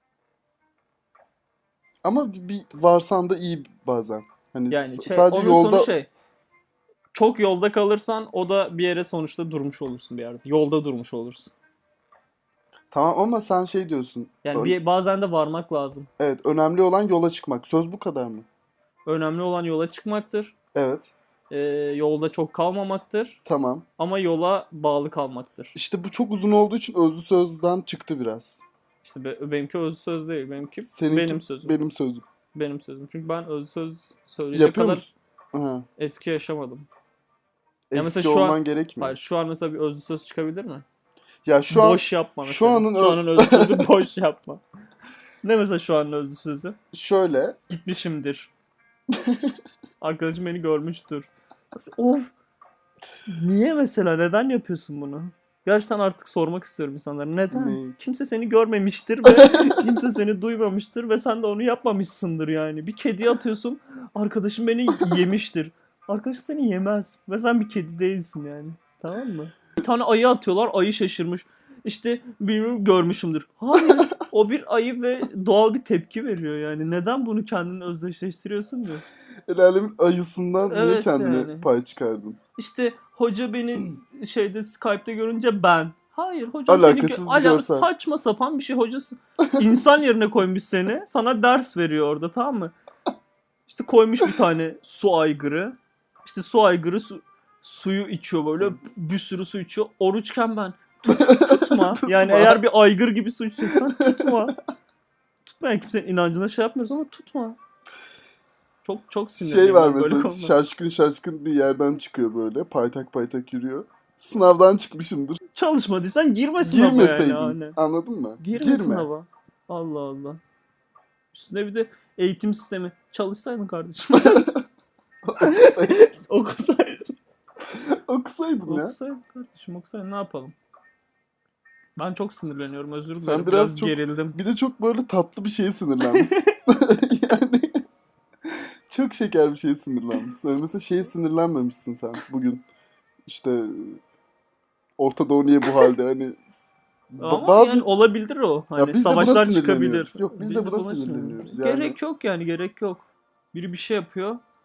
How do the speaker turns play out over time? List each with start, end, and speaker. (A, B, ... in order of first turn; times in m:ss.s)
0:02.0-0:05.9 A
0:04.7-0:06.1 B
0:07.1-0:11.5 B
0:12.9-0:14.8 A
0:14.4-0:16.1 B
0:16.2-0:18.4 A
0:19.0-0:20.5 B
0:20.7-0:21.1 A
0:21.5-0:23.4 B
0:23.4-0:23.8 A
0:24.0-0:25.8 B
0:25.7-0:28.6 A
0:29.0-0:31.9 B
0:30.9-0:32.2 A
0:32.5-0:35.1 B
0:34.5-0:35.9 A
0:36.0-0:36.9 B
0:37.9-0:39.2 A
0:37.9-0:40.8 B
0:41.4-0:43.9 A
0:41.7-0:44.6 B
0:45.4-0:46.8 B
0:46.9-0:47.6 A
0:47.7-0:48.5 B
0:49.2-0:49.5 A
0:50.0-0:52.3 B
0:53.3-1:19.0 B
0:57.5-0:57.9 A
1:19.5-1:22.4 A
1:20.7-1:21.7 B
1:22.6-1:32.7 B
1:26.7-1:27.9 A
1:33.7-1:44.6 B
1:41.1-1:42.6 A
1:43.7-1:44.4 A
1:45.4-1:47.6 B
1:48.8-1:50.6 B
1:49.4-1:55.4 A
1:55.5-1:57.8 B
1:56.6-1:59.1 A
1:58.4-2:00.4 B
2:01.3-2:04.5 B
2:04.1-2:04.6 A
2:05.2-2:06.0 A
2:05.4-2:07.2 B
2:07.7-2:08.9 A
2:08.6-2:10.5 B
2:12.0-2:14.4 B
2:13.2-2:17.8 A
2:16.1-2:16.5 B
2:18.5-2:22.6 A
2:23.2-2:24.0 A
2:25.0-2:27.9 A
2:27.2-2:34.4 B
2:28.8-2:32.0 A